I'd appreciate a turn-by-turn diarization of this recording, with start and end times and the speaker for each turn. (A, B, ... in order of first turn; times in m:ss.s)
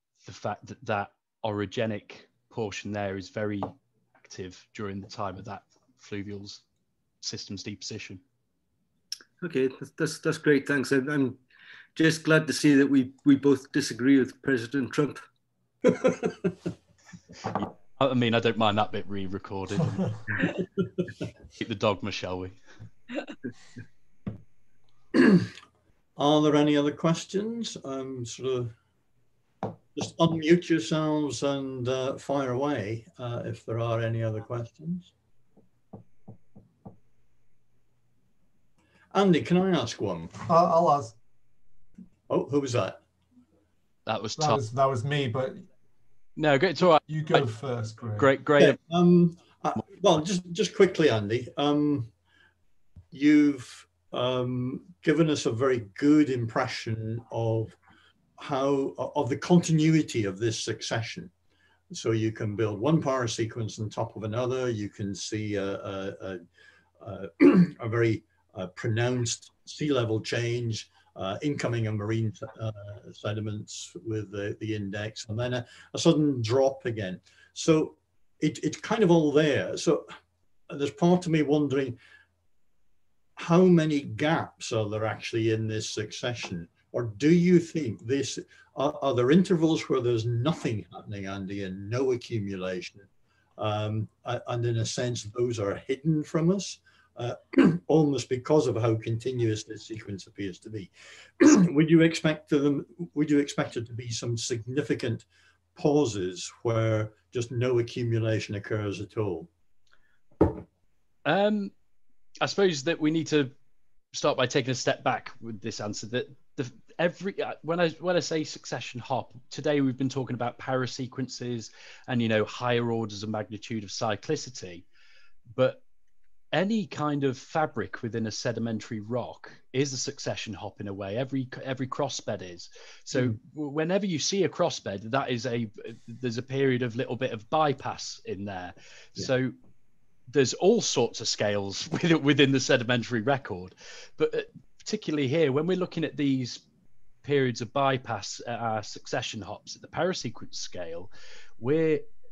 0:00.2-0:06.6 A
0:07.2-0:08.2 A
0:09.4-0:11.4 B
0:12.0-0:15.2 B
0:17.5-0:20.1 A
0:21.6-0:22.6 A
0:25.1-0:25.5 C
0:26.2-0:28.7 C
0:29.9-0:35.1 C
0:39.1-0:40.3 C
0:40.4-0:41.2 D
0:42.3-0:43.0 C
0:44.1-0:44.6 A
0:44.4-0:45.7 D
0:46.4-0:47.4 A
0:47.0-0:48.3 D
0:48.2-0:48.8 A
0:48.6-0:52.1 C
0:53.1-0:57.8 C
0:58.4-1:01.3 C
1:01.9-1:06.4 C
1:07.0-1:20.1 C
1:20.7-1:22.0 C
1:23.4-1:49.5 C
1:51.2-1:51.7 A
1:52.4-1:53.5 A
1:54.1-2:04.8 A
2:05.5-2:05.8 A
2:06.5-2:19.5 A
2:20.3-2:26.6 A
2:27.2-2:32.0 A